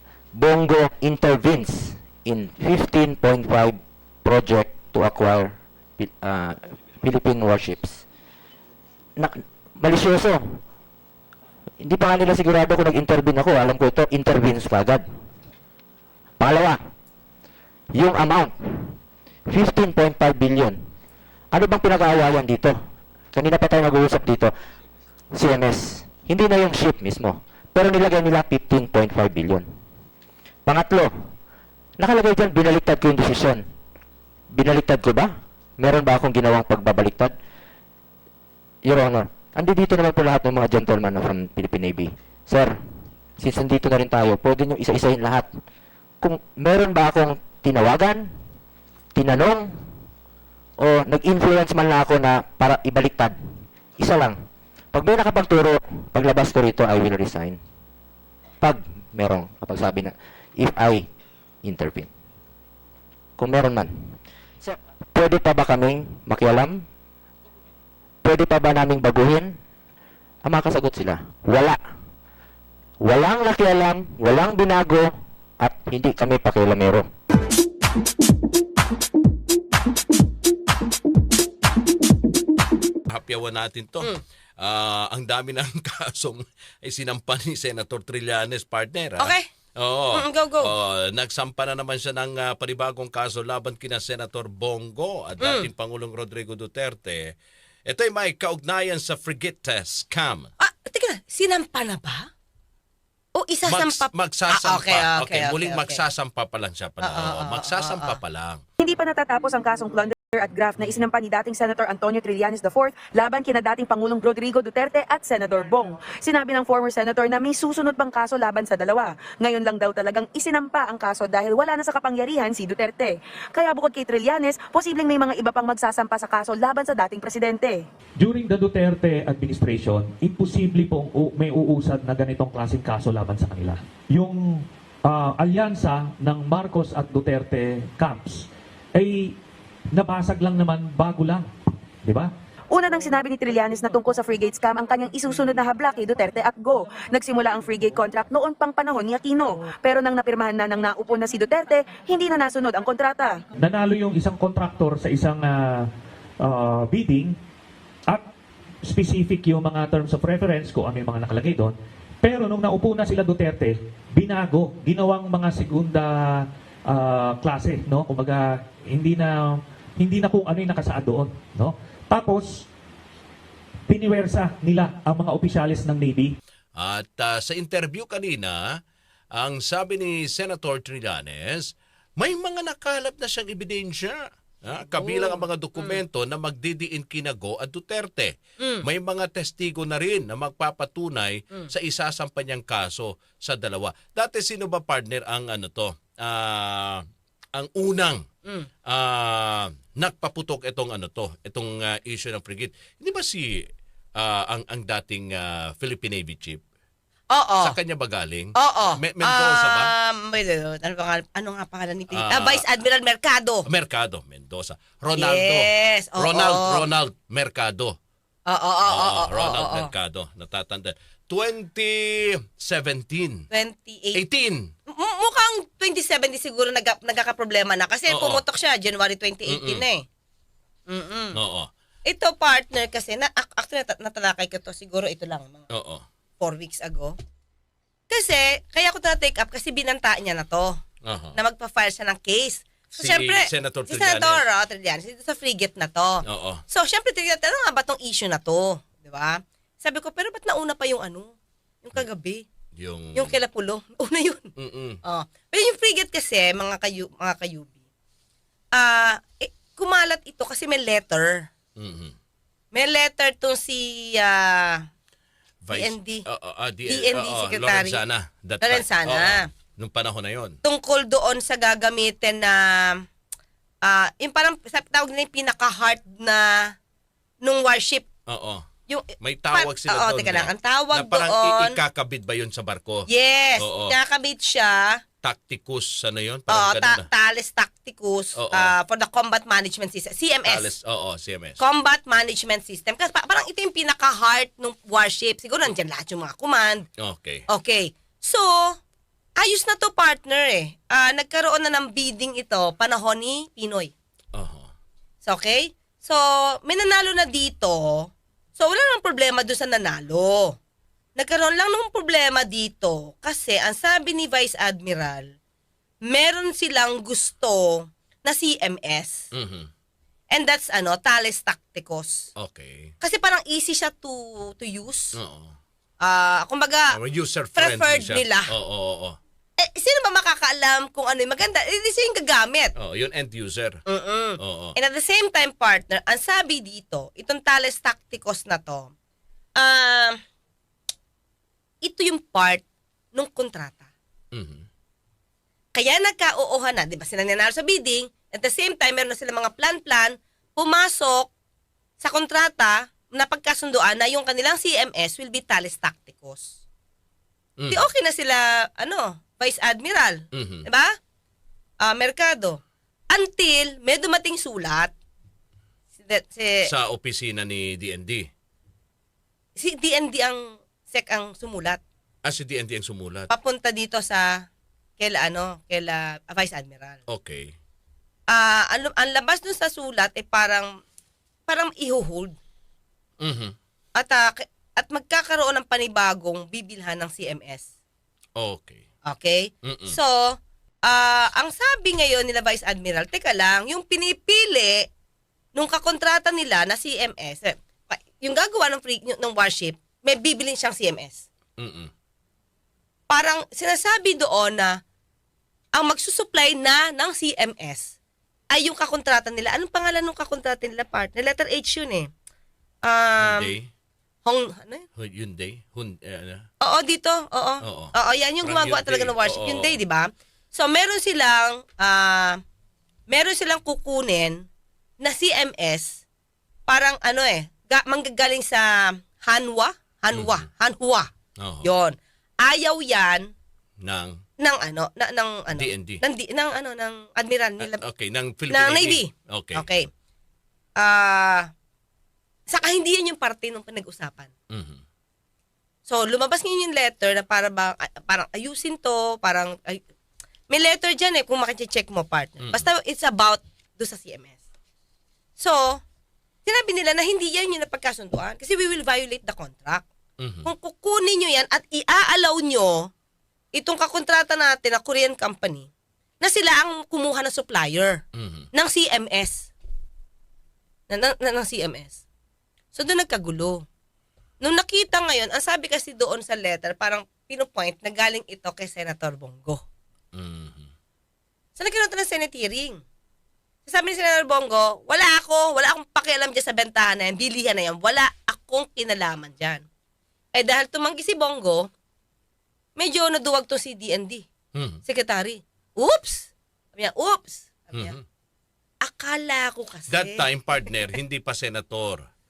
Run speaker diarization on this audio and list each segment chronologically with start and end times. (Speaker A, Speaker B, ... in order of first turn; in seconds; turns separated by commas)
Speaker A: 0.3-8.0, Speaker A: 9.2-10.6, Speaker A: 11.8-15.1, Speaker A: 16.4-16.8, Speaker A: 17.9-19.0, Speaker A: 19.5-20.9, Speaker A: 21.5-22.8, Speaker A: 23.3-24.5, Speaker A: 25.3-29.7, Speaker A: 30.6-31.3, Speaker A: 32.0-33.6, Speaker A: 34.5-37.3, Speaker A: 38.8-42.8, Speaker A: 43.4-45.5, Speaker A: 46.2-48.4, Speaker A: 49.1-49.9, Speaker A: 50.8-54.4, Speaker A: 54.9-57.6, Speaker A: 58.6-61.1, Speaker A: 61.6-62.1, Speaker A: 63.4-66.8, Speaker A: 68.2-69.6, Speaker A: 70.4-71.8, Speaker A: 73.0-77.1, Speaker B: 83.1-97.3, Speaker C: 89.2-89.4, Speaker C: 90.1-90.7, Speaker C: 95.4-95.7, Speaker B: 97.8-100.5, Speaker C: 100.6-102.3, Speaker C: 103.3-106.0, Speaker B: 103.7-108.6, Speaker C: 107.0-108.2, Speaker D: 108.8-127.8, Speaker E: 128.2-139.4, Speaker E: 139.9-141.5, Speaker E: 142.0-142.3, Speaker D: 142.7-153.4, Speaker E: 153.6-155.9, Speaker E: 156.4-157.3, Speaker E: 158.8-172.6, Speaker E: 173.9-176.3, Speaker B: 176.8-178.7, Speaker B: 179.3-198.2, Speaker C: 184.9-186.0, Speaker B: 198.8-206.6, Speaker C: 207.3-207.8, Speaker B: 207.6-209.9, Speaker C: 208.5-213.7, Speaker B: 212.1-212.7, Speaker B: 213.7-217.9, Speaker C: 215.1-216.8, Speaker C: 218.5-219.9, Speaker B: 218.8-223.4, Speaker C: 223.5-224.2, Speaker B: 224.1-224.7, Speaker C: 224.9-230.0, Speaker B: 228.1-228.4, Speaker B: 229.4-229.8, Speaker C: 230.9-231.4, Speaker B: 231.3-231.7, Speaker C: 232.1-235.7, Speaker B: 235.7-236.0, Speaker C: 236.4-237.2, Speaker C: 238.1-240.8, Speaker B: 241.0-241.3, Speaker C: 241.3-252.5, Speaker B: 243.0-244.4, Speaker B: 246.2-246.6, Speaker B: 252.8-253.3, Speaker C: 253.1-254.5, Speaker B: 254.6-255.0, Speaker C: 255.0-257.7, Speaker C: 258.7-261.5, Speaker B: 261.8-262.1, Speaker C: 262.7-264.8, Speaker B: 265.6-270.6, Speaker C: 265.7-266.2, Speaker C: 266.9-268.0, Speaker C: 268.6-269.5, Speaker C: 270.6-273.0, Speaker C: 273.8-276.7, Speaker C: 277.4-278.1, Speaker B: 278.3-278.6, Speaker C: 278.9-281.8, Speaker B: 279.2-283.1, Speaker C: 283.1-285.0, Speaker B: 283.6-283.9, Speaker B: 285.2-287.1, Speaker C: 286.5-290.7, Speaker B: 288.4-288.7, Speaker B: 290.4-291.6, Speaker C: 291.6-296.8, Speaker B: 297.0-297.4, Speaker C: 297.5-298.8, Speaker C: 299.4-303.9, Speaker B: 304.3-304.7, Speaker C: 305.2-310.6, Speaker C: 311.2-315.3, Speaker C: 316.1-319.3, Speaker B: 319.3-319.7, Speaker C: 320.3-322.3, Speaker B: 322.4-322.9, Speaker C: 323.0-325.1, Speaker B: 325.1-325.5, Speaker C: 326.0-327.0, Speaker B: 326.9-329.2, Speaker C: 327.6-328.5, Speaker C: 329.6-332.7, Speaker B: 332.8-333.8, Speaker C: 333.9-338.9, Speaker B: 334.4-334.7, Speaker C: 339.6-340.2, Speaker C: 341.8-342.6, Speaker C: 343.1-343.9, Speaker B: 344.3-344.6, Speaker C: 345.7-351.3, Speaker C: 352.0-356.6, Speaker B: 357.6-357.9, Speaker C: 357.7-360.9, Speaker B: 360.3-360.6, Speaker C: 361.8-362.6, Speaker C: 363.1-364.9, Speaker C: 366.0-366.7, Speaker B: 366.7-368.3, Speaker C: 369.6-371.8, Speaker B: 372.2-373.3, Speaker C: 373.3-374.4, Speaker C: 375.0-377.0, Speaker B: 377.1-377.5, Speaker C: 378.3-380.7, Speaker C: 381.5-382.4, Speaker B: 383.2-383.5, Speaker C: 384.0-387.6, Speaker B: 388.4-388.8, Speaker C: 389.1-394.9, Speaker B: 389.6-390.0, Speaker C: 395.5-401.2, Speaker B: 401.6-401.9, Speaker C: 403.1-404.8, Speaker C: 405.7-407.9, Speaker C: 408.5-412.1, Speaker C: 412.8-413.5, Speaker B: 413.2-413.7, Speaker C: 414.2-414.9, Speaker B: 415.0-416.4, Speaker C: 416.6-422.4, Speaker B: 417.6-419.8, Speaker C: 423.1-424.5, Speaker C: 425.0-426.0, Speaker C: 426.7-431.1, Speaker B: 430.1-430.4, Speaker B: 431.4-431.7, Speaker C: 431.6-433.3, Speaker B: 433.8-434.2, Speaker C: 434.4-437.8, Speaker B: 435.5-436.0, Speaker B: 437.6-439.7, Speaker C: 438.5-439.9, Speaker C: 440.8-441.5, Speaker C: 442.5-444.3, Speaker B: 444.5-444.8, Speaker C: 445.9-449.8, Speaker C: 450.5-454.4, Speaker B: 452.4-452.6, Speaker C: 455.4-455.8, Speaker C: 456.4-459.8, Speaker B: 460.2-460.5, Speaker C: 460.4-462.9, Speaker C: 463.5-465.7, Speaker C: 466.2-468.0, Speaker B: 468.1-468.5, Speaker C: 468.5-469.5, Speaker C: 470.9-472.0, Speaker C: 472.7-473.6, Speaker C: 474.4-479.6, Speaker B: 480.1-480.7, Speaker C: 481.6-482.8, Speaker C: 483.7-489.6, Speaker C: 490.3-491.7, Speaker C: 492.8-494.2, Speaker B: 494.5-494.8, Speaker C: 494.9-497.9, Speaker B: 497.7-498.0, Speaker C: 498.8-500.2, Speaker B: 499.9-502.0